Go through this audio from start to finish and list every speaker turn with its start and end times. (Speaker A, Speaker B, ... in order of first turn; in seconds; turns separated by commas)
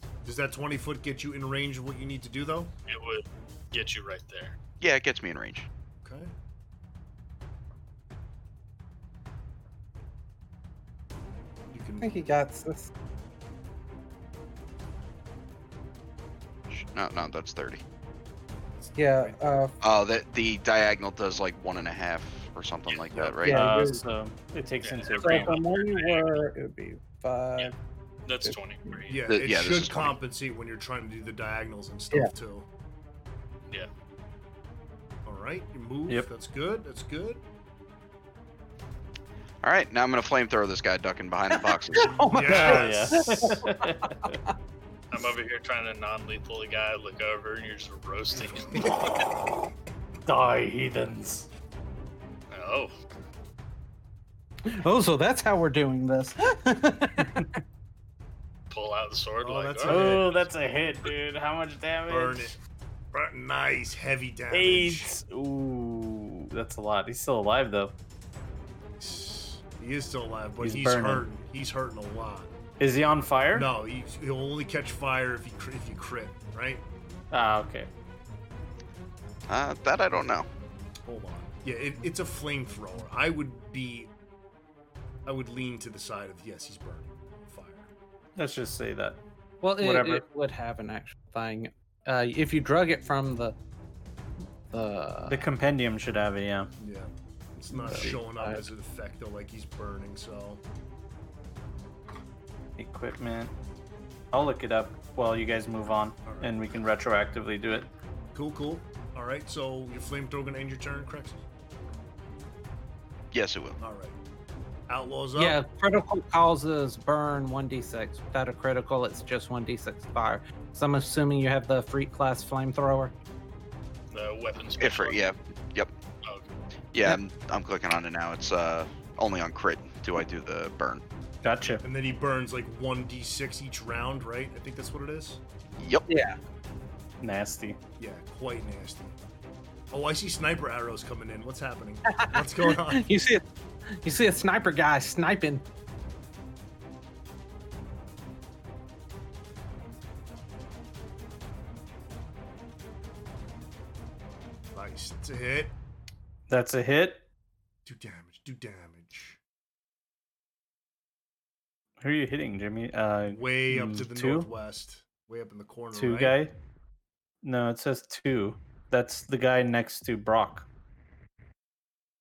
Speaker A: 0.2-2.8, Speaker B: 2.9-4.6, Speaker C: 4.8-5.7, Speaker A: 6.0-6.3, Speaker A: 11.7-12.2, Speaker D: 12.0-12.9, Speaker C: 16.7-17.8, Speaker A: 18.8-19.6, Speaker D: 19.0-19.7, Speaker C: 19.8-23.6, Speaker A: 23.1-23.4, Speaker D: 23.4-24.0, Speaker E: 23.4-25.6, Speaker B: 24.8-26.4, Speaker D: 25.2-27.7, Speaker B: 28.2-29.2, Speaker D: 28.4-29.0, Speaker A: 29.1-32.7, Speaker C: 29.3-30.2, Speaker A: 35.2-37.4, Speaker C: 39.6-42.2, Speaker D: 42.0-44.5, Speaker A: 42.3-43.4, Speaker E: 42.5-44.4, Speaker B: 45.1-49.0, Speaker A: 48.4-48.9, Speaker E: 50.3-51.5, Speaker B: 52.5-52.9, Speaker D: 54.7-57.5, Speaker B: 58.7-60.5, Speaker A: 59.4-60.4, Speaker E: 59.9-62.6, Speaker A: 62.1-62.6, Speaker A: 63.1-65.1, Speaker E: 64.5-67.9, Speaker A: 68.9-72.6, Speaker E: 70.6-71.3, Speaker E: 72.8-73.7, Speaker A: 73.5-76.8, Speaker E: 77.3-77.9, Speaker C: 79.5-80.5, Speaker A: 81.0-84.1, Speaker A: 85.3-87.9, Speaker E: 88.4-89.2, Speaker D: 89.6-93.6, Speaker E: 89.8-90.2, Speaker D: 94.7-95.5, Speaker E: 95.3-96.7, Speaker A: 96.8-100.6, Speaker D: 97.7-98.7, Speaker E: 102.8-103.5, Speaker E: 104.3-107.9, Speaker A: 106.2-106.6, Speaker A: 108.3-111.4, Speaker C: 113.3-113.8, Speaker A: 113.8-114.2, Speaker A: 114.9-115.6, Speaker D: 115.4-123.1, Speaker B: 124.1-125.2, Speaker C: 124.8-125.9, Speaker C: 126.9-131.0, Speaker E: 131.4-131.8, Speaker A: 131.8-135.4, Speaker C: 135.8-136.1, Speaker D: 136.1-136.4, Speaker E: 137.2-137.8, Speaker A: 138.0-139.2, Speaker A: 139.9-143.1, Speaker D: 142.1-145.6, Speaker A: 154.7-155.8, Speaker E: 156.5-157.2, Speaker A: 157.8-159.4, Speaker E: 162.0-164.5, Speaker A: 163.3-166.4, Speaker E: 165.9-166.5, Speaker E: 167.4-170.7